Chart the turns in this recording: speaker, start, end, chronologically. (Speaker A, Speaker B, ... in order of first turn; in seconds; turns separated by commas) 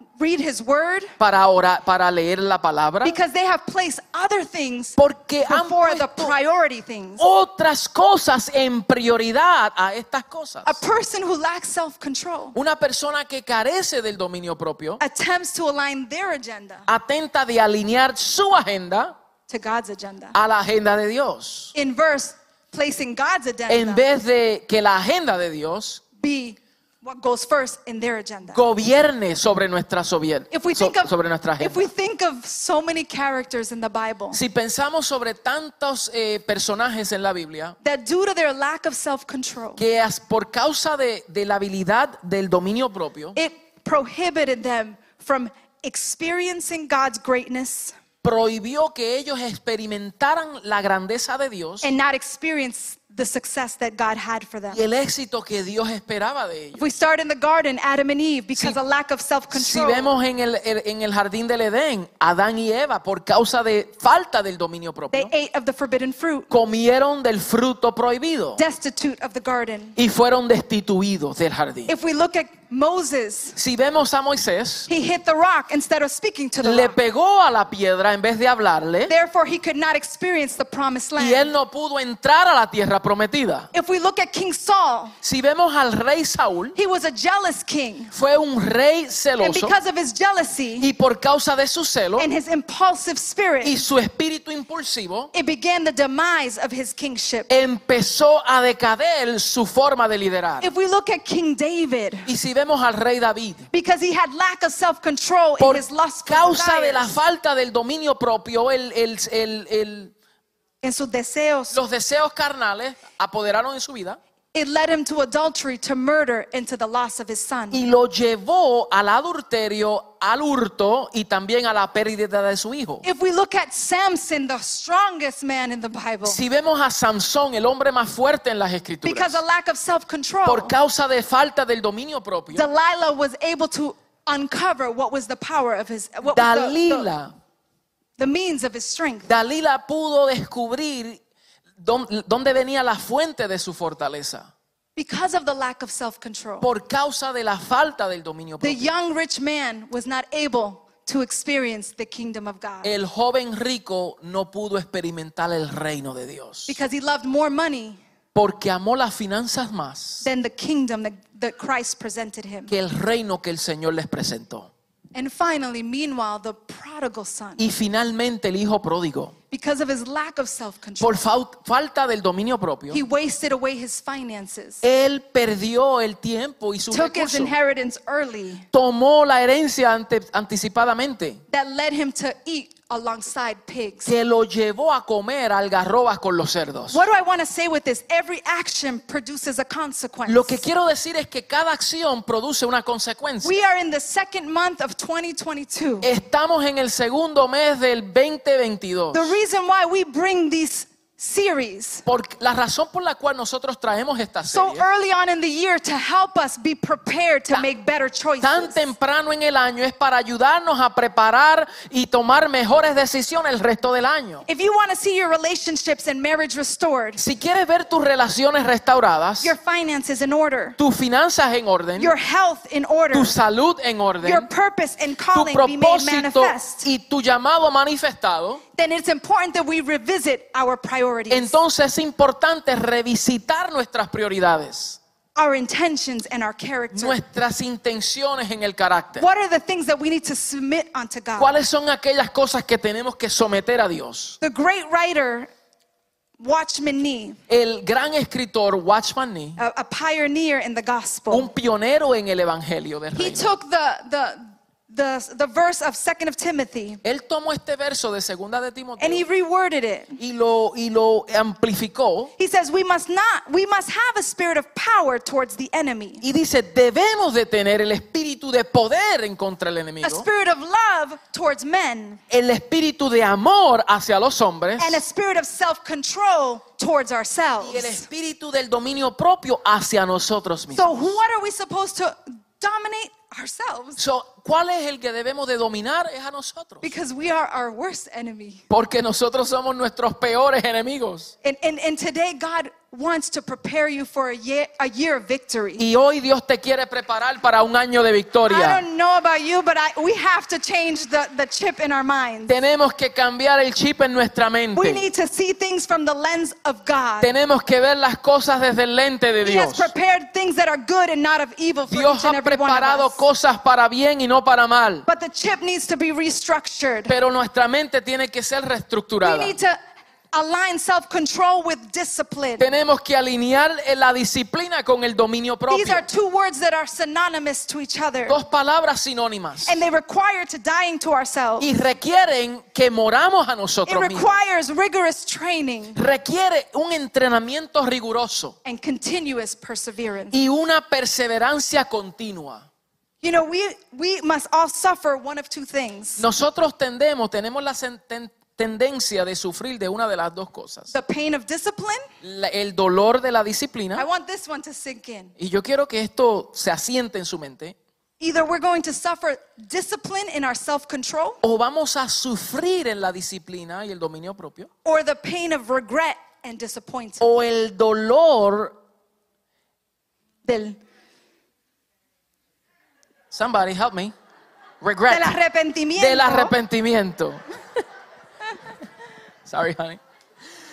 Speaker A: 0.2-1.1, Speaker B: 1.2-3.2, Speaker A: 3.0-7.2, Speaker B: 5.0-6.3, Speaker B: 7.2-10.8, Speaker A: 10.7-12.6, Speaker B: 12.6-15.0, Speaker A: 15.0-16.9, Speaker B: 16.9-19.1, Speaker A: 19.5-20.4, Speaker B: 20.3-21.7, Speaker A: 21.7-24.0, Speaker B: 23.7-26.0, Speaker A: 26.2-28.6, Speaker B: 28.5-31.8, Speaker A: 30.5-34.4, Speaker B: 34.3-37.8, Speaker A: 37.8-39.8, Speaker B: 39.8-43.4, Speaker A: 43.4-48.0, Speaker B: 48.2-51.9, Speaker A: 51.8-54.8, Speaker B: 54.7-56.8, Speaker A: 56.8-60.1, Speaker B: 59.5-65.3, Speaker A: 65.1-66.5, Speaker B: 66.5-68.6, Speaker A: 68.6-70.0, Speaker B: 70.0-71.9, Speaker A: 71.9-73.6, Speaker B: 73.5-74.9, Speaker A: 74.9-77.0, Speaker B: 76.6-79.1, Speaker A: 79.1-81.5, Speaker B: 81.2-83.7, Speaker A: 83.7-85.2, Speaker B: 85.2-86.8, Speaker A: 86.8-88.1, Speaker B: 88.1-89.7, Speaker A: 89.4-90.9, Speaker B: 90.8-92.3, Speaker A: 92.2-93.8, Speaker B: 93.6-95.3, Speaker A: 95.3-97.5, Speaker B: 97.5-100.7, Speaker A: 100.6-102.3, Speaker B: 102.3-103.7, Speaker A: 103.7-107.2, Speaker B: 105.6-110.1, Speaker A: 110.8-111.8, Speaker B: 111.7-114.2, Speaker A: 114.5-117.8, Speaker B: 117.7-123.0, Speaker A: 123.0-126.4, Speaker B: 126.2-129.4, Speaker A: 129.0-130.7, Speaker B: 130.5-132.7, Speaker A: 132.5-137.1, Speaker B: 136.3-137.3, Speaker A: 138.2-139.3, Speaker B: 139.3-141.2, Speaker B: 141.8-144.5, Speaker A: 145.0-146.7, Speaker B: 146.6-148.9, Speaker A: 148.6-152.9, Speaker B: 152.8-156.8, Speaker A: 156.7-158.0, Speaker B: 158.3-160.2, Speaker A: 160.2-162.7, Speaker B: 162.7-164.7, Speaker A: 165.2-167.7, Speaker B: 167.6-169.3, Speaker A: 169.5-171.2, Speaker B: 171.0-173.0, Speaker A: 172.9-174.8, Speaker B: 174.8-177.5, Speaker A: 176.9-178.7, Speaker B: 178.7-181.4, Speaker A: 181.5-184.1, Speaker B: 184.1-187.0, Speaker A: 186.9-190.6, Speaker B: 190.3-193.6, Speaker A: 193.4-196.1, Speaker B: 196.0-199.3, Speaker A: 199.1-202.1, Speaker B: 202.1-204.9, Speaker A: 204.5-208.8, Speaker B: 208.4-214.4, Speaker A: 214.5-217.2, Speaker B: 217.2-219.6, Speaker A: 219.4-220.8, Speaker B: 220.8-222.1, Speaker A: 222.0-223.3, Speaker B: 223.1-224.5, Speaker A: 224.2-226.9, Speaker B: 225.3-228.6, Speaker A: 228.8-231.6, Speaker B: 231.3-235.0, Speaker A: 235.4-237.2, Speaker B: 236.9-239.2, Speaker A: 239.2-241.5, Speaker B: 241.4-244.4, Speaker A: 244.4-245.5, Speaker A: 246.4-247.4, Speaker B: 247.5-249.6, Speaker A: 249.6-251.5, Speaker B: 251.3-253.5, Speaker A: 253.2-257.0, Speaker B: 257.0-259.2, Speaker A: 259.0-260.2, Speaker B: 260.2-262.3, Speaker A: 262.4-266.2, Speaker B: 266.2-270.3, Speaker A: 270.0-272.2, Speaker B: 272.3-275.0, Speaker A: 274.8-278.1, Speaker B: 277.6-281.2, Speaker A: 280.7-284.0, Speaker B: 284.0-286.9, Speaker A: 286.8-288.6, Speaker B: 288.7-291.3, Speaker A: 291.4-295.8, Speaker B: 295.8-298.8, Speaker A: 298.5-302.6, Speaker B: 302.5-305.1, Speaker A: 304.8-307.3, Speaker B: 307.2-309.9, Speaker A: 309.4-313.2, Speaker B: 311.9-315.1, Speaker A: 315.1-317.1, Speaker B: 317.1-319.6, Speaker A: 319.2-319.8, Speaker A: 320.3-322.7, Speaker B: 322.6-326.0, Speaker A: 325.7-328.4, Speaker B: 328.3-329.8, Speaker A: 329.6-331.7, Speaker B: 331.6-334.4, Speaker A: 333.9-336.0, Speaker B: 335.9-338.6, Speaker A: 338.6-340.4, Speaker B: 340.3-342.7, Speaker A: 343.2-346.2, Speaker B: 346.2-350.9, Speaker A: 350.9-352.1, Speaker B: 352.2-354.1, Speaker A: 353.9-355.3, Speaker B: 355.4-357.8, Speaker A: 358.2-361.4, Speaker B: 361.4-364.7, Speaker A: 364.8-367.2, Speaker B: 367.2-368.8, Speaker A: 370.4-370.8, Speaker B: 373.3-374.1, Speaker B: 374.8-375.3, Speaker A: 375.1-376.5, Speaker B: 376.0-377.4, Speaker B: 379.5-380.0